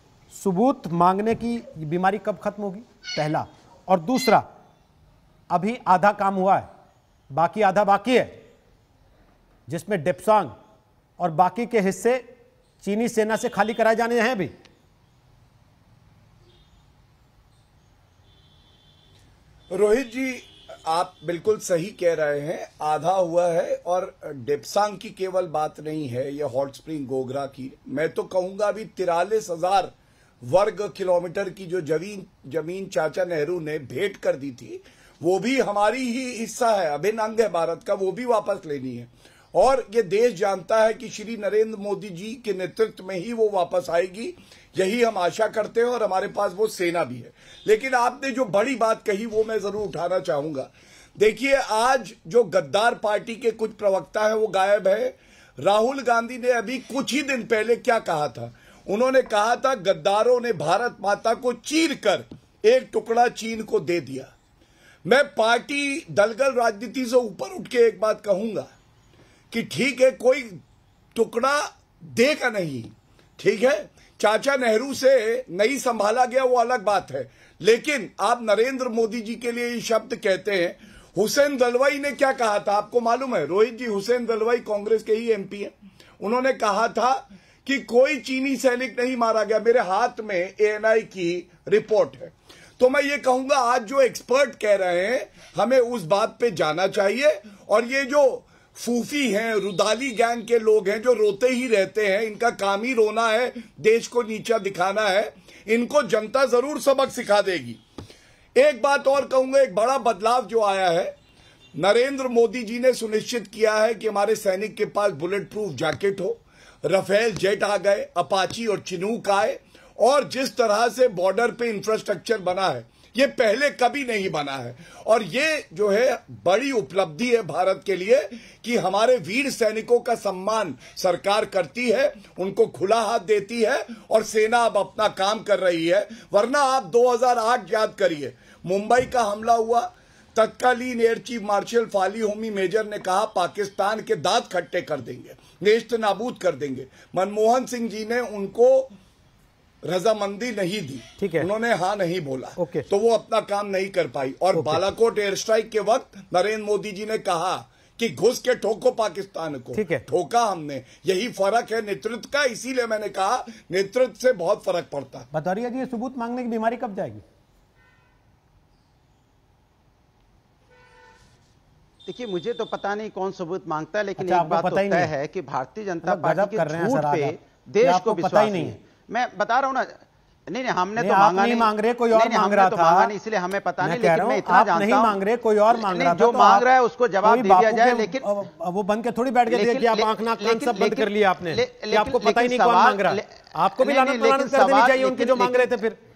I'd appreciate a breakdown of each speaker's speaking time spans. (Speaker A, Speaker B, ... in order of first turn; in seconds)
Speaker A: 0.3-4.5, 5.5-6.7, 7.3-8.3, 9.7-10.5, 11.2-12.2, 12.8-14.5, 151.2-151.5, 152.6-152.9, 154.5-154.8, 159.7-160.1, 165.3-167.2, 174.2-175.1, 176.0-178.7, 181.0-183.1, 183.8-186.7, 187.2-196.0
Speaker B: 19.7-29.9, 30.4-64.3, 65.0-68.7, 69.5-70.6, 71.2-107.8, 108.6-111.1, 111.8-148.9, 149.8-165.3
Speaker C: 172.1-180.0, 180.5-185.2, 185.7-188.3, 189.5-193.2, 193.8-195.8